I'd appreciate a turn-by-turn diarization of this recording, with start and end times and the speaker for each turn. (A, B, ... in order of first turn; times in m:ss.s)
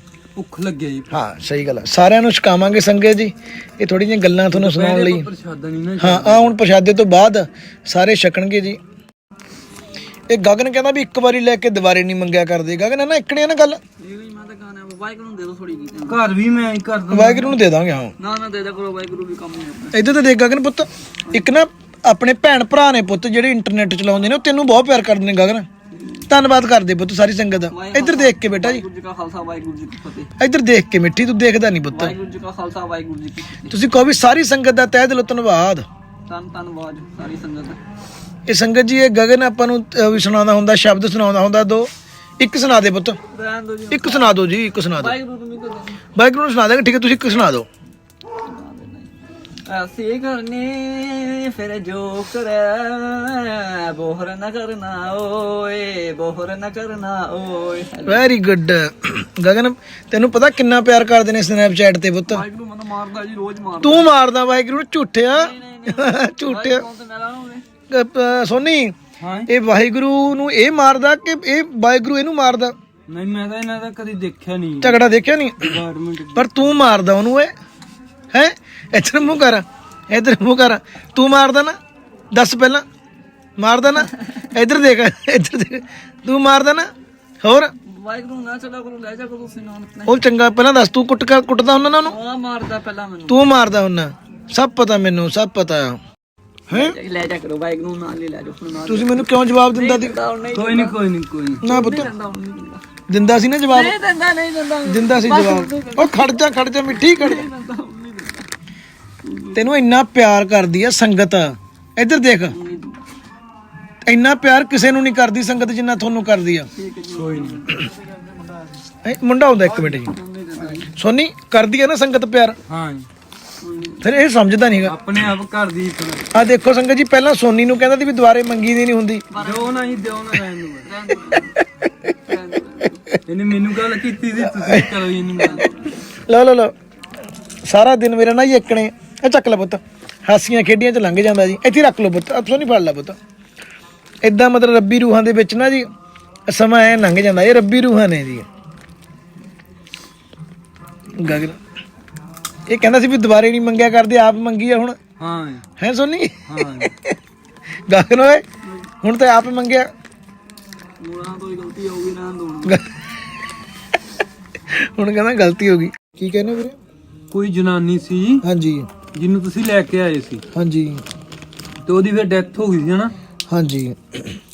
0:00.3-0:01.1 A
0:01.1-0:05.3 B
0:04.5-0:06.6 A
0:06.0-0:08.8 B
0:10.3-0:13.8 B
0:14.0-0:16.2 C
0:16.1-0:17.6 A
0:17.1-0:18.1 B
0:18.2-0:20.0 C
0:19.9-0:25.6 B
0:25.9-0:26.3 C
0:26.3-0:28.8 B
0:27.7-0:30.3 C
0:30.4-0:32.2 B
0:31.9-0:33.8 C
0:33.7-0:35.8 B
0:36.3-0:37.8 C
0:38.5-0:43.2 B
0:43.3-0:44.4 C
0:43.9-0:45.2 B
0:45.0-0:46.0 C
0:46.2-0:47.7 B
0:48.4-0:49.1 C
0:49.6-0:58.2 C
0:58.0-1:02.4 B
1:02.3-1:04.1 C
1:03.8-1:06.8 B
1:05.3-1:07.6 C
1:07.9-1:08.9 B
1:09.2-1:09.5 A
1:09.5-1:12.7 B
1:13.1-1:15.0 A
1:14.8-1:15.8 B
1:15.6-1:16.8 A
1:16.3-1:17.5 B
1:18.3-1:21.7 B
1:22.3-1:22.8 B
1:23.6-1:26.8 B
1:24.0-1:24.5 C
1:27.4-1:27.7 B
1:27.8-1:30.2 C
1:30.0-1:32.1 B
1:32.0-1:33.5 C
1:33.3-1:36.0 B
1:36.7-1:37.0 B
1:36.7-1:41.0 C
1:38.9-1:40.1 B
1:40.5-1:41.6 A
1:41.6-1:42.1 B
1:41.6-1:42.8 C
1:43.1-1:44.0 B
1:43.7-1:48.5 C
1:44.8-1:47.5 B
1:49.2-1:49.7 C
1:49.5-1:52.6 B
1:52.5-1:53.0 C
1:54.0-1:56.7 B
1:56.7-1:57.8 C
1:57.1-1:57.8 A
1:59.0-2:00.1 B
1:59.6-2:00.9 C
2:00.9-2:02.6 B
2:02.7-2:03.0 A
2:03.6-2:04.1 C
2:04.0-2:05.0 B
2:04.8-2:06.5 A
2:06.3-2:09.2 B
2:09.3-2:10.0 C
2:09.4-2:10.9 A
2:10.8-2:11.6 C
2:12.1-2:13.0 C
2:13.2-2:15.7 A
2:14.4-2:16.7 B
2:15.4-2:15.9 C
2:17.6-2:23.2 B
2:24.2-2:25.9 B
2:26.5-2:28.4 B
2:31.2-2:31.6 B
2:32.7-2:35.0 B
2:35.2-2:35.6 A
2:35.8-2:37.2 B
2:36.5-2:36.9 A
2:37.9-2:38.4 B
2:39.0-2:39.8 B
2:41.0-2:42.8 C
2:42.6-2:43.1 B
2:44.7-2:46.8 B
2:47.3-2:48.4 A
2:48.4-2:48.9 B
2:49.1-2:50.4 A
2:50.5-2:51.0 B
2:51.8-2:53.1 A
2:53.5-2:54.4 B